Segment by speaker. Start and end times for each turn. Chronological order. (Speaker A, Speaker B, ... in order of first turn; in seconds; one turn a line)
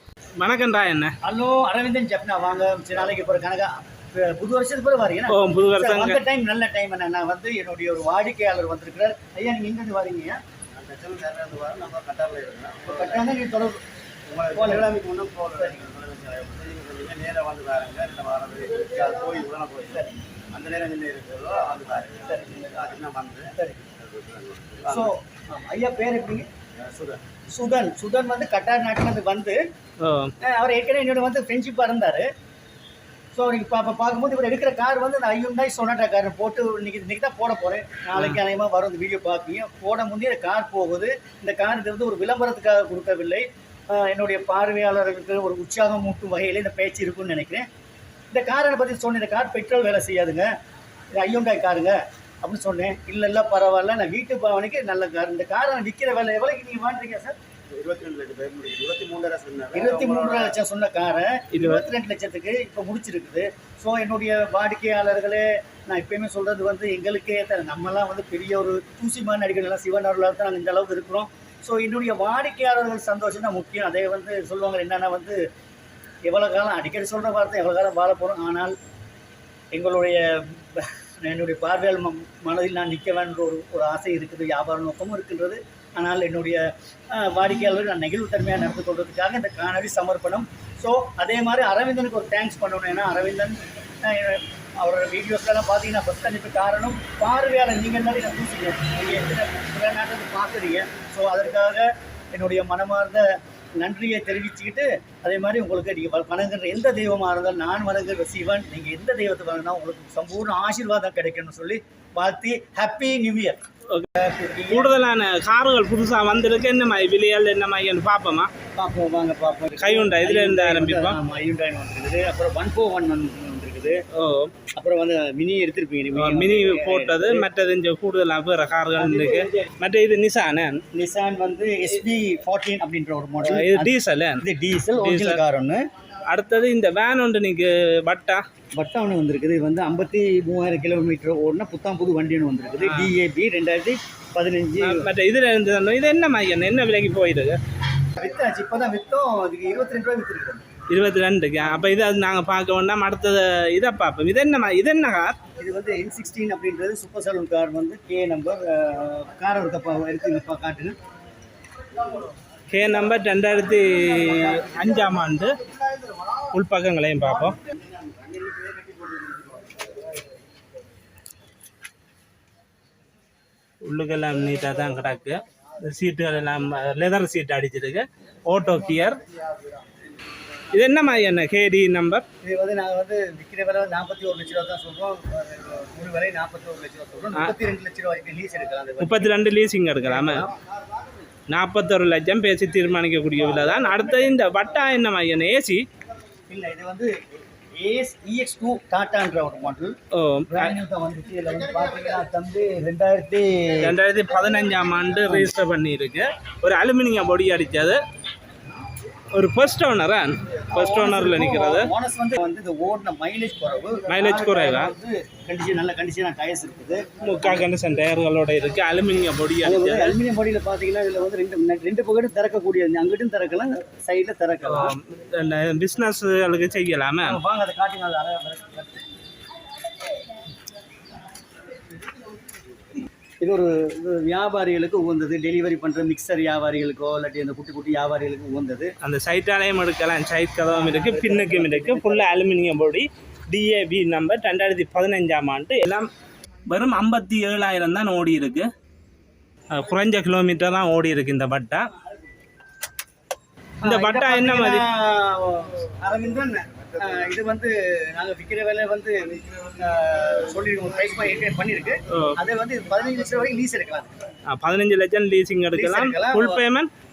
Speaker A: 0.4-1.1
Speaker B: 1.2-10.4
Speaker A: 5.3-6.2
Speaker C: 10.7-13.2
Speaker B: 12.9-13.8
Speaker C: 14.3-20.0
Speaker B: 14.5-15.0
Speaker B: 15.5-15.9
Speaker B: 19.9-20.1
Speaker C: 20.5-25.1
Speaker B: 22.2-22.7
Speaker B: 23.6-23.8
Speaker B: 24.9-26.5
Speaker C: 26.8-27.2
Speaker B: 27.5-29.6
Speaker A: 30.0-30.3
Speaker B: 30.4-32.3
Speaker B: 33.3-47.7
Speaker B: 48.3-50.5
Speaker B: 51.1-57.4
Speaker C: 57.7-60.5
Speaker B: 59.7-75.4
Speaker A: 61.5-61.8
Speaker B: 76.2-78.7
Speaker B: 79.7-113.6
Speaker B: 114.2-114.9
Speaker A: 114.7-118.5
Speaker B: 118.8-124.0
Speaker A: 119.8-121.2
Speaker A: 124.1-124.5
Speaker B: 124.8-127.5
Speaker A: 126.1-130.8
Speaker B: 129.0-129.7
Speaker B: 130.9-135.8
Speaker A: 133.5-134.4
Speaker A: 135.0-135.4
Speaker A: 136.3-138.4
Speaker B: 138.8-145.1
Speaker A: 142.8-143.1
Speaker A: 144.8-147.6
Speaker B: 148.2-150.6
Speaker A: 150.9-155.4
Speaker B: 151.6-151.9
Speaker B: 155.6-161.0
Speaker A: 162.7-165.6
Speaker B: 164.2-164.9
Speaker A: 166.5-167.6
Speaker B: 167.7-169.2
Speaker A: 173.8-179.2
Speaker A: 180.7-182.2
Speaker B: 182.4-189.4
Speaker A: 189.0-190.4
Speaker B: 190.1-190.6
Speaker A: 191.5-195.8
Speaker B: 193.4-194.5
Speaker B: 196.5-197.1
Speaker B: 197.8-199.9
Speaker A: 200.1-200.7
Speaker B: 200.5-203.9
Speaker A: 203.8-208.0
Speaker A: 209.3-211.9
Speaker B: 210.7-217.7
Speaker A: 214.1-214.9
Speaker A: 217.2-220.2
Speaker B: 219.6-224.9
Speaker A: 224.7-227.4
Speaker B: 227.2-229.1
Speaker B: 233.4-238.9
Speaker A: 239.0-246.1
Speaker B: 240.7-242.3
Speaker A: 246.7-248.7
Speaker A: 249.7-251.9
Speaker B: 251.9-252.3
Speaker B: 253.8-264.1
Speaker A: 253.8-254.8
Speaker A: 262.1-262.4
Speaker A: 264.5-266.9
Speaker B: 265.7-266.6